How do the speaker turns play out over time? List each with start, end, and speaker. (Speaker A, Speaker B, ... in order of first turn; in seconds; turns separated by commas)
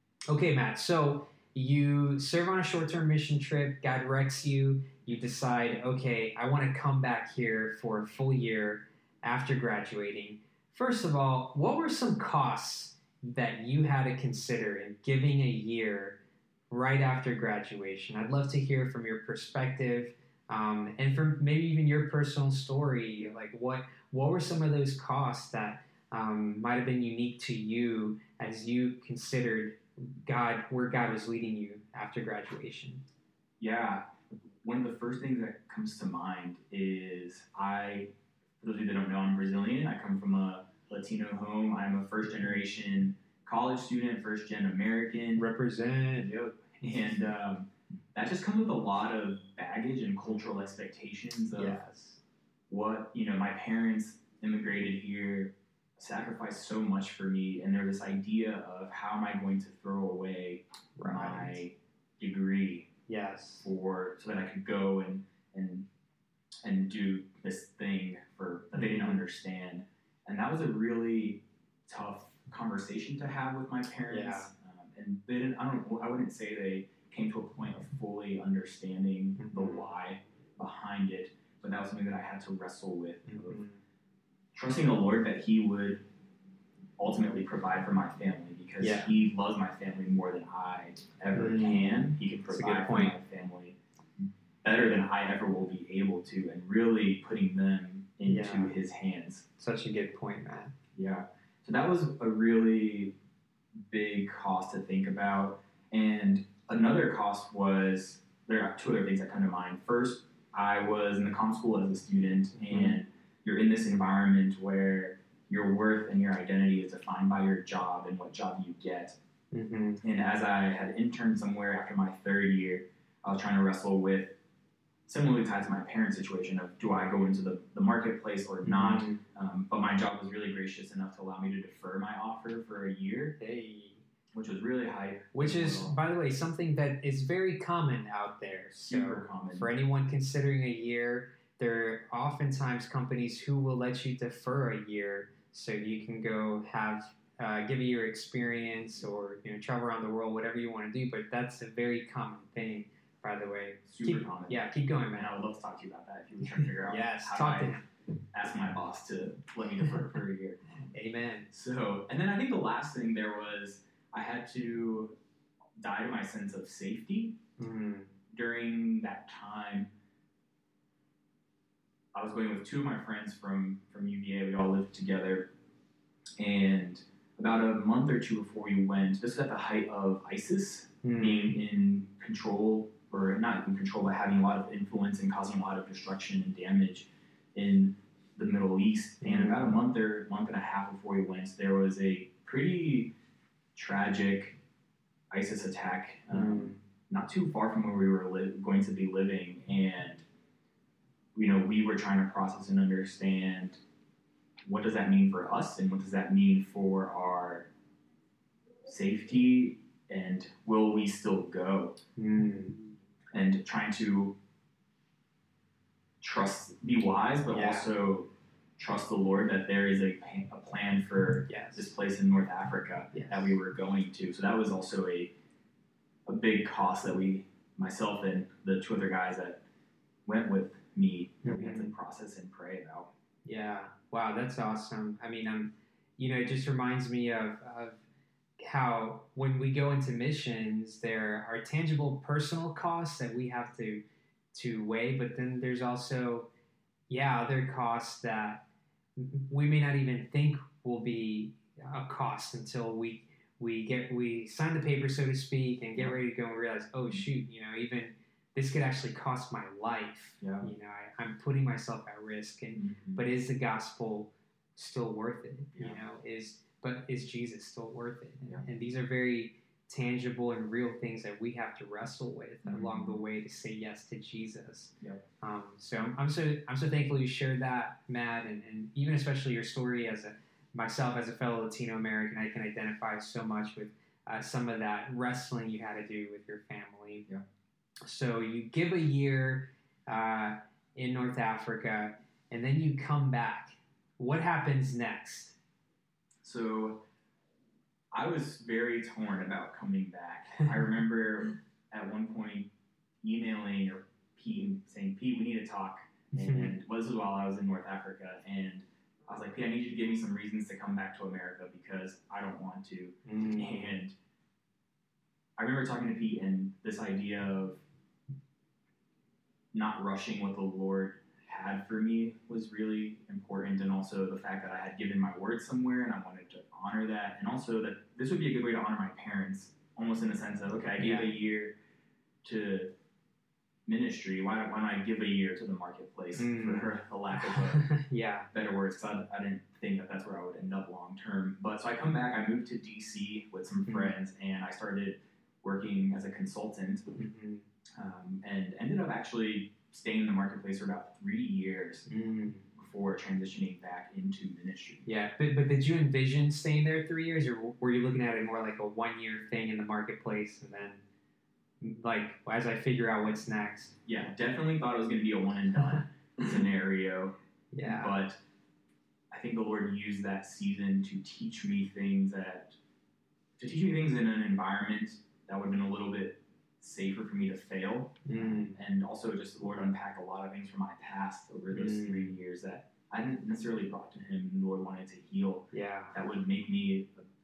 Speaker A: 0.3-16.2, Speaker A: 16.7-33.0, Speaker B: 33.6-34.0, Speaker B: 34.6-45.5, Speaker A: 45.4-47.2, Speaker B: 46.1-51.8, Speaker A: 51.5-52.2, Speaker B: 52.7-62.9, Speaker A: 61.0-61.6, Speaker A: 63.1-63.7, Speaker B: 63.6-65.9, Speaker B: 66.6-83.7, Speaker A: 68.7-69.2, Speaker A: 74.1-74.5, Speaker A: 79.4-79.8, Speaker A: 83.3-83.8, Speaker B: 84.5-86.0, Speaker B: 87.0-93.8, Speaker A: 88.8-89.1, Speaker A: 91.3-93.2, Speaker B: 94.6-99.5, Speaker A: 98.2-98.7, Speaker A: 99.6-100.7, Speaker B: 101.0-103.2, Speaker B: 103.9-119.2, Speaker A: 112.7-113.0, Speaker A: 119.5-120.0, Speaker B: 120.0-124.4, Speaker B: 125.1-133.4, Speaker A: 128.6-129.2, Speaker A: 133.4-134.0, Speaker B: 134.3-135.9, Speaker A: 135.3-155.3, Speaker B: 138.8-139.7, Speaker B: 153.9-157.8, Speaker A: 156.8-157.8, Speaker B: 158.3-160.7, Speaker A: 160.9-161.5, Speaker B: 161.5-165.1, Speaker B: 165.8-167.4, Speaker A: 167.6-168.1, Speaker B: 168.3-169.9, Speaker B: 172.2-175.5, Speaker B: 176.4-193.1, Speaker A: 181.0-181.6, Speaker A: 189.2-189.7, Speaker B: 193.8-194.6, Speaker B: 195.3-200.2, Speaker A: 196.3-196.8, Speaker B: 201.3-203.8, Speaker B: 204.7-207.7, Speaker B: 208.8-212.0, Speaker A: 212.2-212.8, Speaker B: 213.3-214.4, Speaker B: 216.2-225.3, Speaker A: 217.5-217.9, Speaker A: 221.4-221.9, Speaker A: 223.1-223.5, Speaker B: 226.3-229.6, Speaker B: 230.2-233.1, Speaker A: 231.4-231.9, Speaker A: 233.4-238.0, Speaker A: 238.6-244.0, Speaker A: 244.5-246.5, Speaker A: 247.1-248.7, Speaker A: 249.2-287.3, Speaker B: 260.4-260.7, Speaker B: 262.8-263.2, Speaker B: 265.8-266.0, Speaker B: 272.7-273.2, Speaker A: 288.1-295.6, Speaker B: 296.4-297.0, Speaker B: 298.1-302.7, Speaker B: 303.2-314.1, Speaker A: 306.4-306.8, Speaker A: 313.3-313.9, Speaker B: 315.6-317.8, Speaker B: 319.7-331.8, Speaker A: 331.0-331.3, Speaker B: 332.4-332.9, Speaker B: 333.9-337.9, Speaker A: 336.4-338.5, Speaker B: 338.5-347.1, Speaker A: 343.8-344.1, Speaker A: 347.2-347.7, Speaker B: 348.0-352.1, Speaker A: 352.1-352.7, Speaker B: 352.8-355.1, Speaker A: 355.1-361.0, Speaker A: 361.8-364.1, Speaker B: 364.1-368.4, Speaker A: 367.7-368.1, Speaker B: 369.3-372.8, Speaker B: 373.6-387.2, Speaker A: 378.2-378.8, Speaker A: 381.7-382.4, Speaker A: 385.7-386.2